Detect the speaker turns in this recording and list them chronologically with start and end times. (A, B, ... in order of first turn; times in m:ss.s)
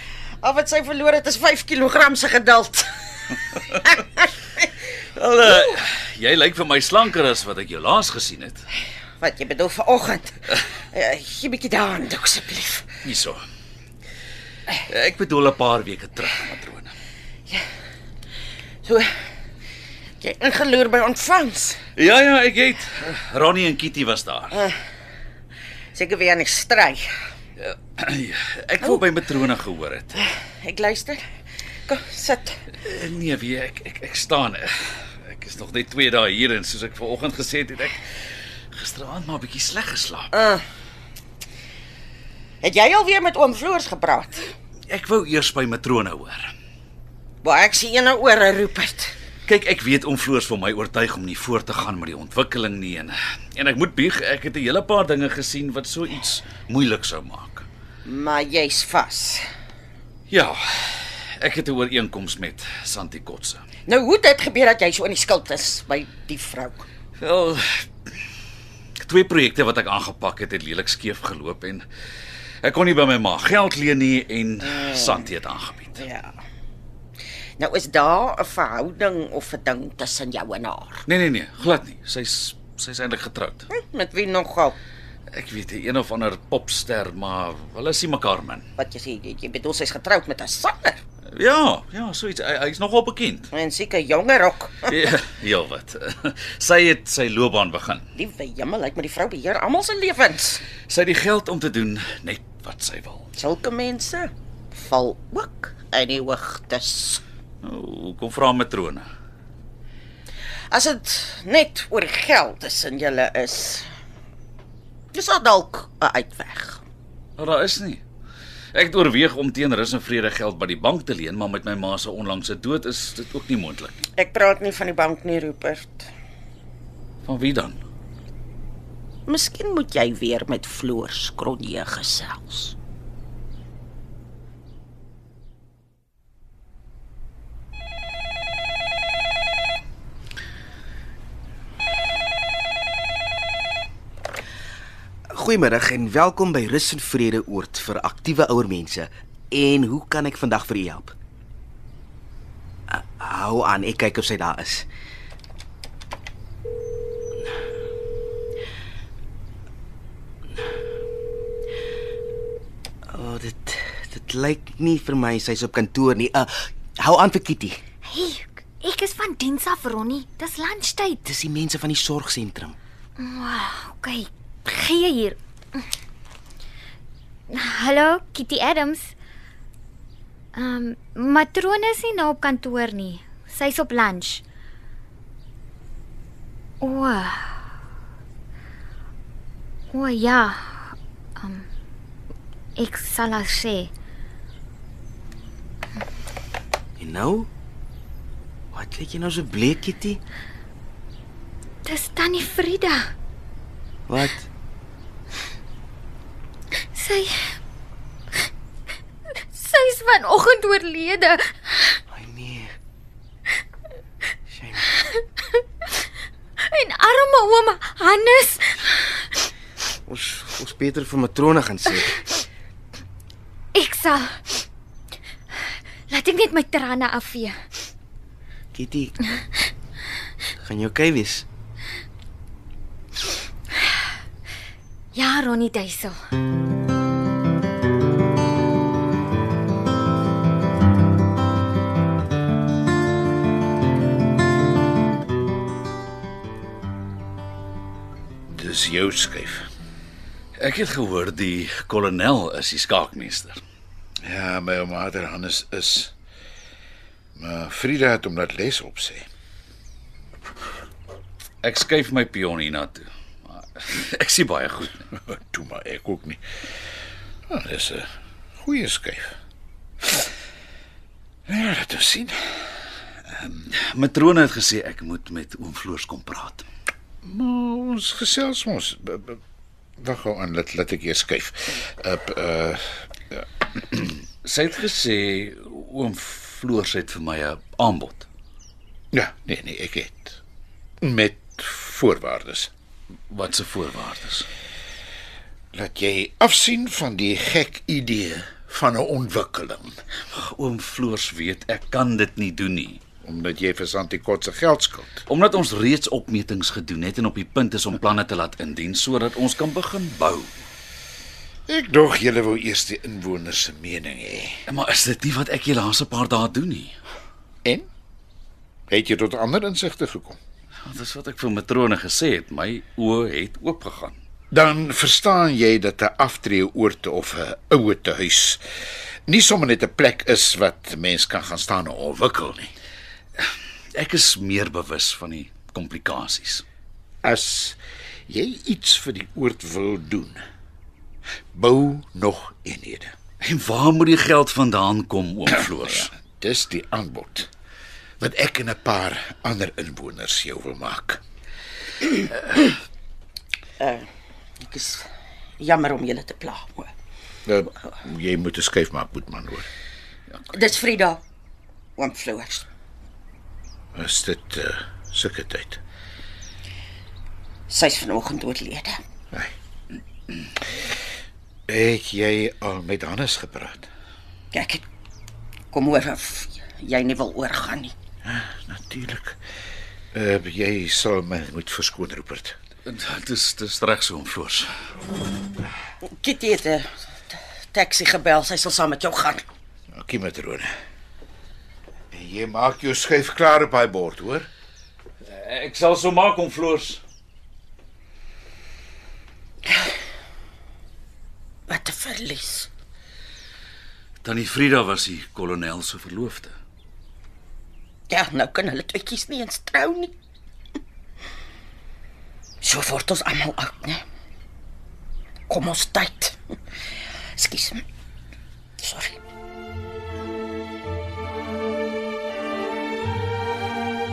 0:00.4-0:04.6 A
0:05.2-0:08.7 B
0:09.2-0:12.9 A
0:13.0-0:13.4 B
0:14.7-0:16.9 B
0:20.2-0:21.8 A
0:22.0-0:24.6 B
0:25.9-0:27.1 A
0:27.6-0:30.2 B
0:30.2-0:31.2 A
0:31.9-0:32.6 A
0:32.8-0:38.1 B
0:38.7-0:40.3 B
0:40.3-0:40.6 A
0:42.6-0:44.5 A
0:44.9-0:46.5 B
0:47.4-0:49.2 A
0:49.5-0:57.7 B
0:58.1-0:59.4 A
1:00.3-1:03.6 B
1:03.9-1:06.8 A
1:07.2-1:07.9 B
1:09.0-1:11.8 B
1:12.6-1:16.0 B
1:14.7-1:15.2 A
1:15.9-1:16.4 A
1:17.6-1:21.0 A
1:21.1-1:23.7 B
1:23.7-1:24.8 A
1:25.3-1:28.6 B
1:28.8-1:31.0 A
1:31.3-1:33.5 B
1:33.5-1:35.0 A
1:34.9-1:38.1 B
1:38.2-1:40.6 A
1:40.9-1:43.3 B
1:43.4-1:47.2 A
1:47.6-1:49.1 B
1:50.7-1:53.9 A
1:55.1-1:56.8 A
1:57.4-1:58.0 B
1:58.7-2:04.0 B
2:04.2-2:06.1 A
2:07.2-2:07.8 B
2:09.3-2:12.8 A
2:25.3-2:31.1 C
2:32.9-2:34.9 C
2:43.1-2:47.8 C
2:48.0-2:51.2 D
2:51.2-2:52.8 C
2:53.2-2:55.8 D
2:57.5-2:59.1 D
3:00.6-3:04.4 D
3:06.8-3:07.6 D
3:09.9-3:11.7 D
3:12.8-3:13.9 D
3:17.0-3:17.5 C
3:18.7-3:20.2 C
3:21.8-3:23.1 D
3:24.1-3:24.5 C
3:26.9-3:27.6 D
3:29.5-3:31.5 D
3:32.1-3:32.7 C
3:34.5-3:34.9 C
3:36.6-3:39.0 D
3:40.1-3:42.2 C
3:43.7-3:44.6 D
3:46.1-3:47.6 D
3:48.7-3:49.1 C
3:50.6-3:51.5 C
3:55.1-3:56.2 D
4:08.5-4:09.7 E
4:10.6-4:13.6 B
4:14.2-4:16.1 E
4:17.4-4:19.2 E
4:21.6-4:25.0 B
4:25.3-4:26.4 E
4:27.5-4:28.1 E
4:28.6-4:29.3 E
4:31.5-4:32.7 E
4:33.7-4:36.6 B
4:37.2-4:39.4 E
4:40.0-4:43.0 E
4:43.9-4:48.3 B
4:49.1-4:50.4 E
4:51.0-4:52.7 E
4:53.3-4:54.5 B
4:55.7-5:00.0 E
5:00.3-5:03.0 B
5:03.2-5:05.2 E
5:05.3-5:10.5 B
5:11.7-5:14.6 E
5:14.7-5:17.0 B
5:18.9-5:20.4 E
5:20.8-5:24.2 B
5:24.5-5:28.6 E
5:29.3-5:32.7 E
5:33.4-5:36.6 B
5:37.2-5:40.4 E
5:41.5-5:43.1 E
5:43.4-5:46.1 B
5:45.8-5:47.5 E
5:48.2-5:51.2 E
5:53.8-5:54.1 A
5:54.6-5:55.1 A
5:55.6-5:56.9 A
5:57.5-5:59.7 E
6:00.5-6:01.2 A
6:02.0-6:02.7 A
6:04.0-6:05.8 E
6:07.7-6:09.0 A
6:11.7-6:13.9 E
6:14.5-6:14.8 A
6:15.7-6:17.9 A
6:18.2-6:19.4 E
6:20.1-6:22.6 E
6:22.9-6:24.7 B
6:26.0-6:29.5 A
6:29.9-6:30.7 E
6:32.1-6:34.5 E
6:35.2-6:37.0 B
6:41.7-6:42.7 A
6:44.2-6:46.5 B
6:48.1-6:50.1 A
6:52.6-6:54.0 A
6:55.5-6:56.4 A
6:57.4-6:57.8 A
6:58.8-6:59.2 A